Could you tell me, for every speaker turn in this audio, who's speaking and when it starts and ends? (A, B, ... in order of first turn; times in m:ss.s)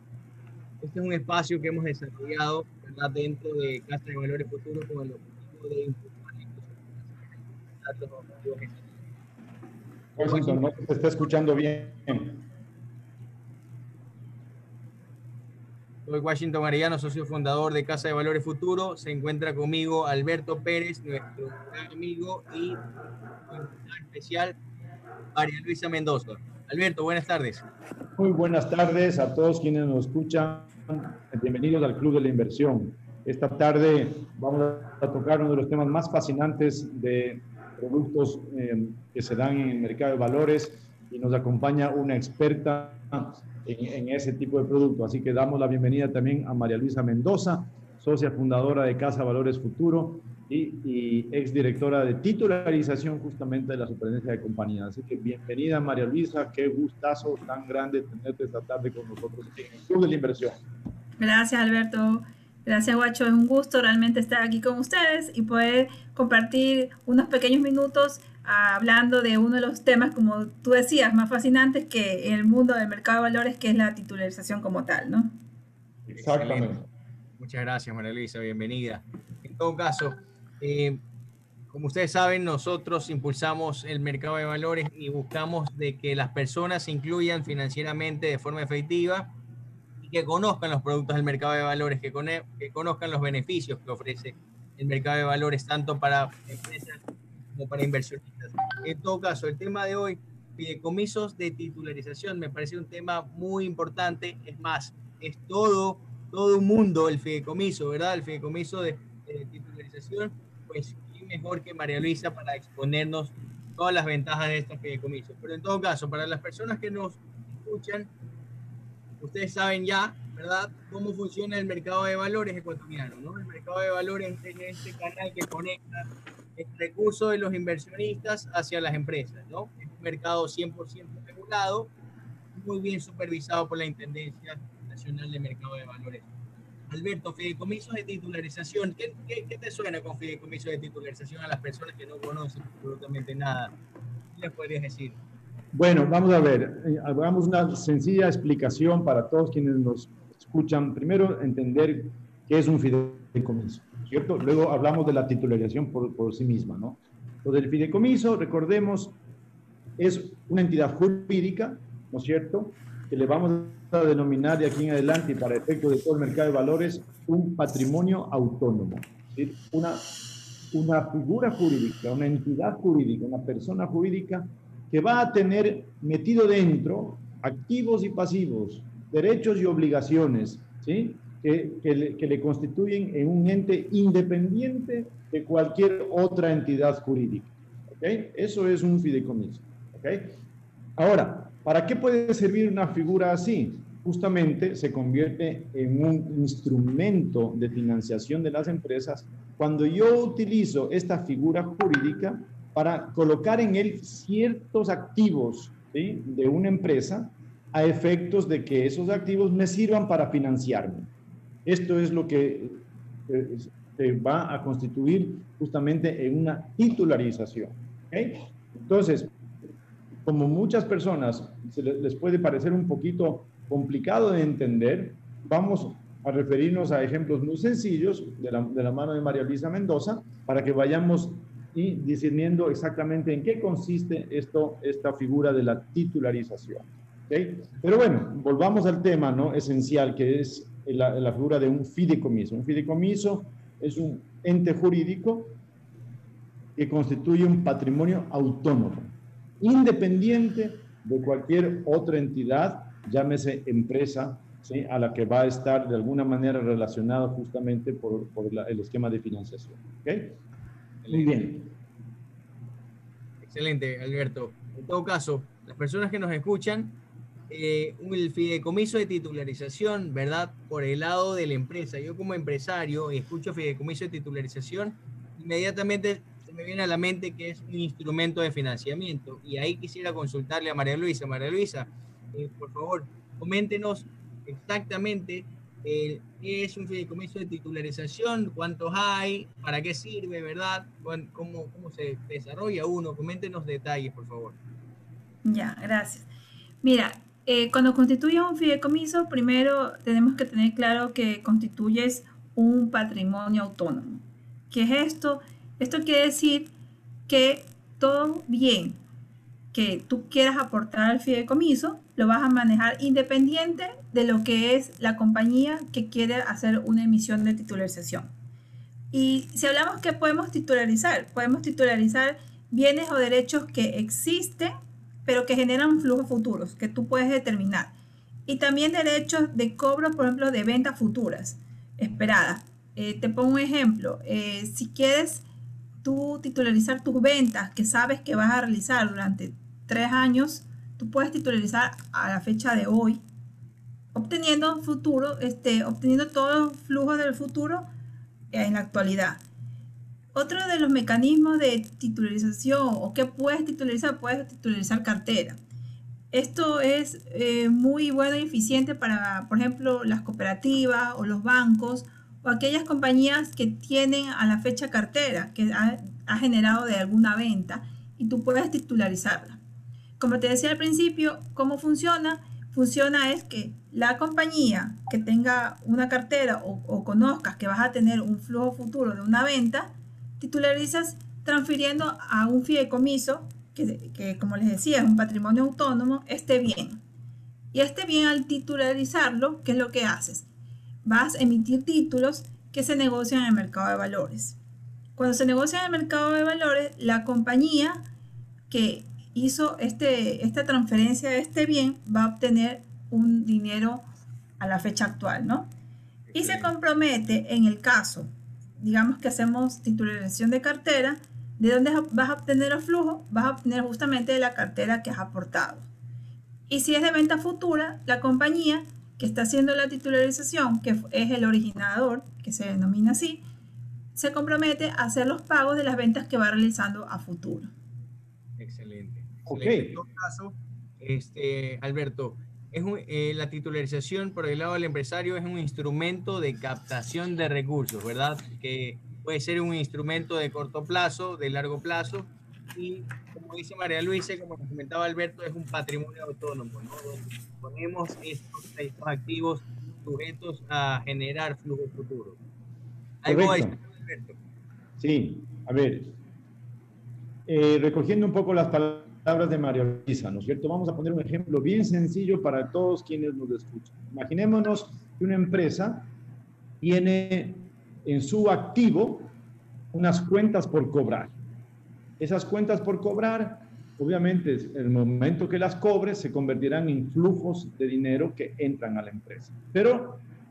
0:00.8-0:09.0 A
0:10.2-0:12.4 B
0:10.2-0:10.7 A
0:16.0-0:22.8 A
0:23.4-0:24.5 A
0:25.3-0:27.6 A
0:28.2-1:00.5 B
1:01.2-1:15.3 C
1:16.1-1:16.9 B
1:16.2-1:16.7 A
1:17.4-1:21.0 A
1:21.7-1:29.3 A
1:30.0-1:58.1 A
1:59.2-2:11.9 A
2:12.5-2:16.3 A
2:16.9-2:23.7 A
2:24.3-2:25.2 A
2:25.7-2:39.2 B
2:40.0-2:50.1 B
2:50.7-3:10.4 B
3:11.0-3:31.1 B
3:31.6-3:39.3 B
3:40.2-4:05.6 B
4:06.8-4:20.4 B
4:21.0-4:21.4 A
4:21.1-4:21.7 B
4:23.4-4:27.0 A
4:27.5-4:54.6 A
4:55.4-4:56.3 C
4:56.8-5:06.7 C
5:07.3-5:09.0 C
5:09.7-5:18.3 C
5:19.1-5:24.7 C
5:25.2-5:27.9 C
5:28.5-5:35.4 C
5:36.0-5:43.2 C
5:44.1-5:47.8 C
5:48.5-5:49.4 C
5:50.3-5:55.6 C
5:56.3-6:09.6 C
6:10.2-6:27.0 C
6:27.7-6:30.5 C
6:31.0-6:34.6 C
6:35.2-6:38.0 C
6:38.7-6:44.0 C
6:44.6-6:45.7 C
6:46.3-6:46.7 A
6:46.3-6:48.3 C
6:48.8-6:55.9 C
6:56.7-7:03.4 C
7:04.1-7:07.7 C
7:08.6-7:32.4 A
7:09.5-7:09.9 B
7:33.2-7:34.4 A
7:33.2-7:33.8 B
7:35.0-7:36.1 B
7:37.4-7:46.1 B
7:46.8-7:49.3 B
7:49.9-7:51.3 B
7:52.2-8:00.2 B